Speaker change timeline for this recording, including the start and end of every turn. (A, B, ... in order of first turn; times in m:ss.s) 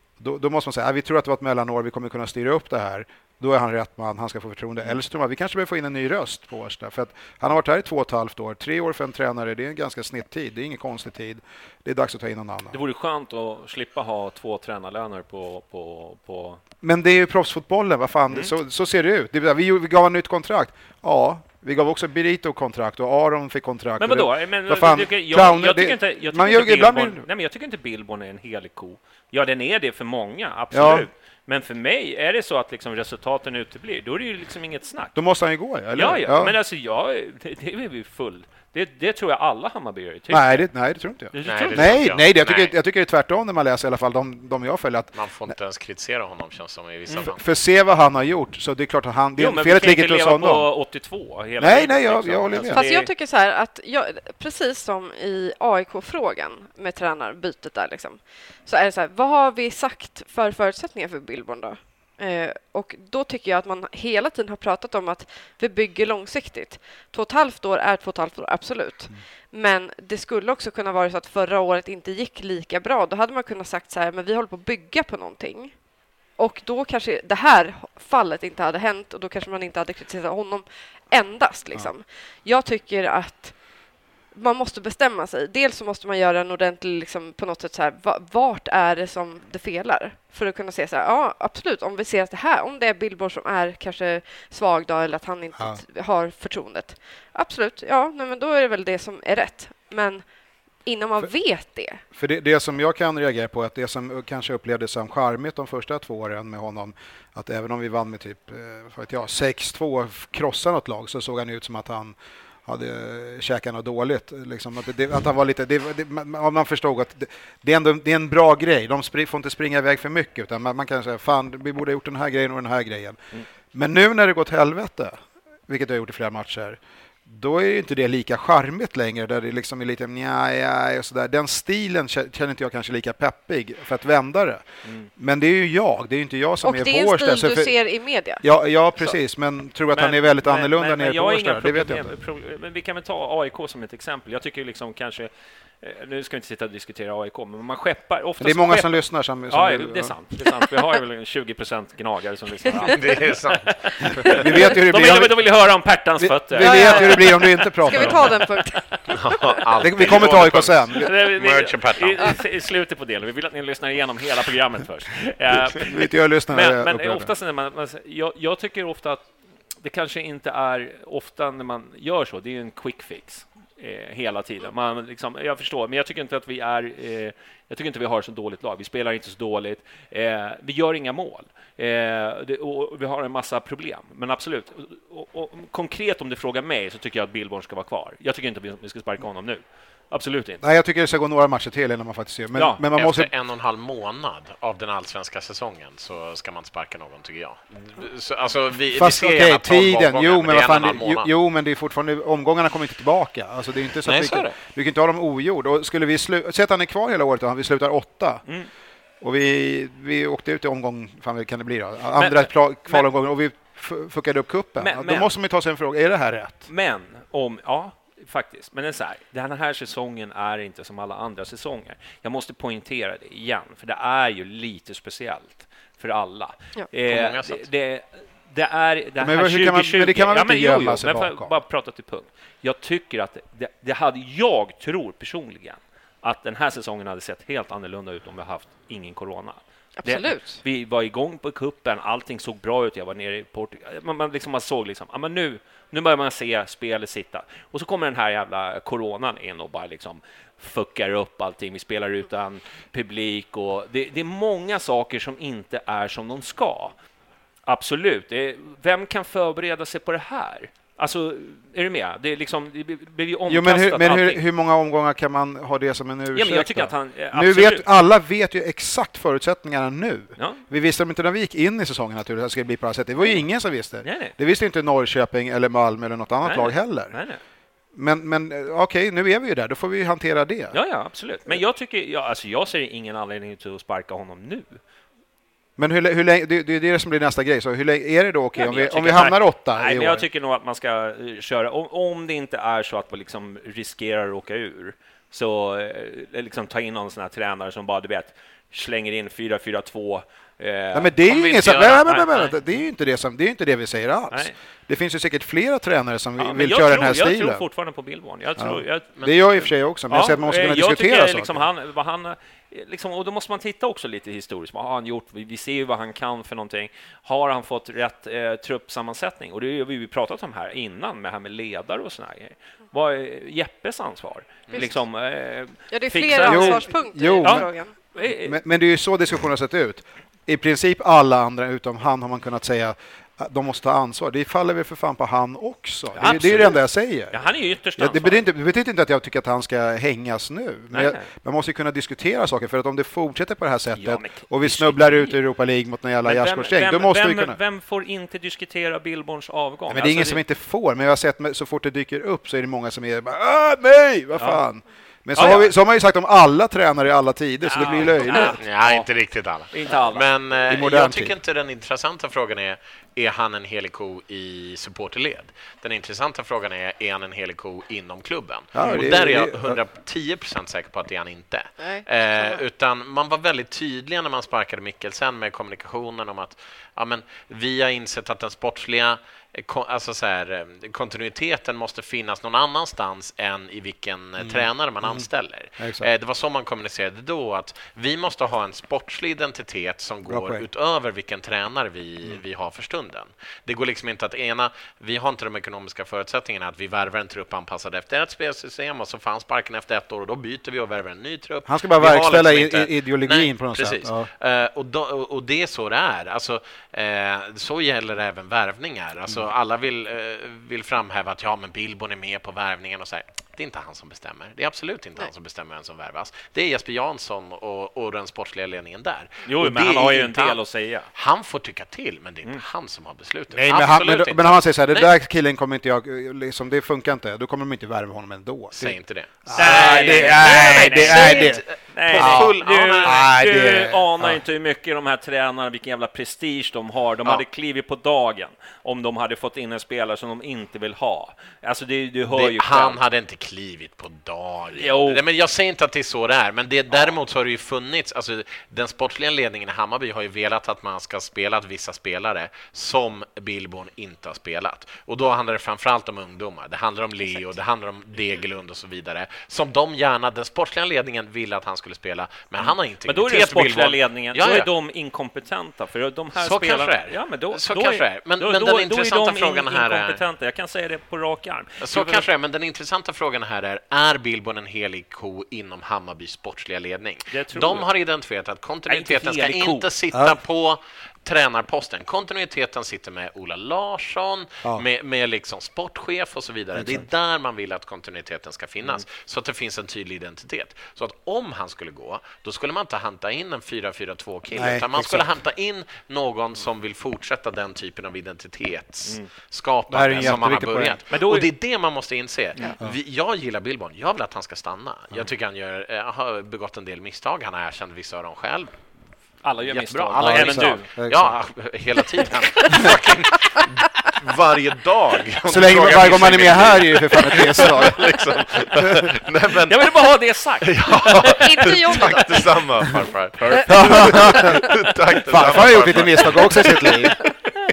0:00.2-0:12.8 A
0:12.7-0:16.6 B
0:16.8-0:27.2 A
0:24.0-0:35.2 B
0:30.7-0:31.1 A
0:35.1-0:36.6 A
0:35.9-0:40.7 B
0:40.3-0:45.5 A
0:41.3-0:42.0 B
0:41.4-0:42.7 C
0:45.1-0:47.4 C
0:47.2-0:50.7 A
0:49.4-0:53.1 B
0:51.6-0:52.8 A
0:52.7-1:23.6 D
1:24.3-1:40.2 D
1:40.8-1:42.0 D
1:42.1-2:05.2 A
2:05.7-2:17.7 A
2:14.8-2:15.1 B
2:16.6-2:18.4 D
2:18.4-2:22.1 A
2:19.9-2:25.3 B
2:25.8-2:28.9 B
2:28.4-2:30.2 A
2:29.5-2:38.8 B
2:32.8-2:34.4 C
2:34.3-2:35.4 A
2:36.2-2:38.4 A
2:36.6-2:39.1 D
2:39.1-2:42.4 C
2:39.8-2:41.1 A
2:41.0-2:49.3 B
2:45.7-2:47.3 A
2:49.8-3:10.6 B
3:10.6-3:13.3 A
3:12.5-3:12.8 B
3:12.9-3:21.3 C
3:18.9-3:28.4 A
3:24.0-3:24.6 C
3:29.2-3:36.7 A
3:32.2-3:33.0 B
3:34.8-3:35.3 B
3:36.7-4:16.9 B
3:47.1-3:47.7 C
3:49.2-3:51.5 A
4:00.0-4:00.6 D
4:17.7-4:24.4 B
4:23.5-4:37.2 A
4:26.3-4:27.8 B
4:30.4-4:30.6 B
4:34.0-4:34.3 B
4:36.4-4:37.4 B
4:37.9-4:40.8 A
4:40.7-4:44.8 B
4:45.8-4:50.2 A
4:48.6-5:01.1 B
5:00.9-5:07.6 A
5:01.2-5:02.6 C
5:06.4-5:09.1 B
5:08.6-5:11.6 A
5:09.2-5:09.6 C
5:10.1-5:26.9 B
5:25.9-5:27.9 D
5:26.3-5:37.4 A
5:27.4-5:28.6 B
5:36.2-5:38.4 B
5:37.9-5:47.6 A
5:40.9-5:41.3 B
5:44.0-5:45.4 B
5:46.2-5:50.4 B
5:49.9-5:58.6 A
5:54.4-5:54.6 B
5:55.4-5:55.7 B
5:57.6-5:59.1 B
5:58.6-7:05.1 C
5:59.7-6:00.2 B
6:00.6-6:01.4 A
6:08.7-6:09.8 A
6:08.8-6:09.1 B
6:11.8-6:12.6 D
6:24.4-6:25.3 A
6:25.8-6:26.1 A
6:30.3-6:30.6 A
6:41.6-6:44.3 A
6:59.4-7:01.1 B
7:03.5-7:14.4 A
7:08.8-7:13.2 C
7:09.6-7:23.0 B
7:22.3-7:44.7 C
7:24.8-7:25.2 B
7:42.6-7:52.2 B
7:46.3-7:50.2 C
7:51.8-8:28.8 C
7:57.3-7:57.9 B
7:58.9-7:59.9 B
8:00.1-8:00.4 A
8:06.7-8:07.0 A
8:14.5-8:15.3 A
8:19.9-8:21.0 A
8:21.1-8:21.5 B
8:29.4-8:30.8 B
8:29.6-8:40.1 C
8:30.2-8:31.4 A
8:35.4-8:38.2 A
8:39.7-8:40.9 B
8:40.6-8:47.3 C
8:41.3-8:42.6 D
8:43.4-8:44.7 B
8:43.6-8:44.6 A
8:45.2-8:47.2 A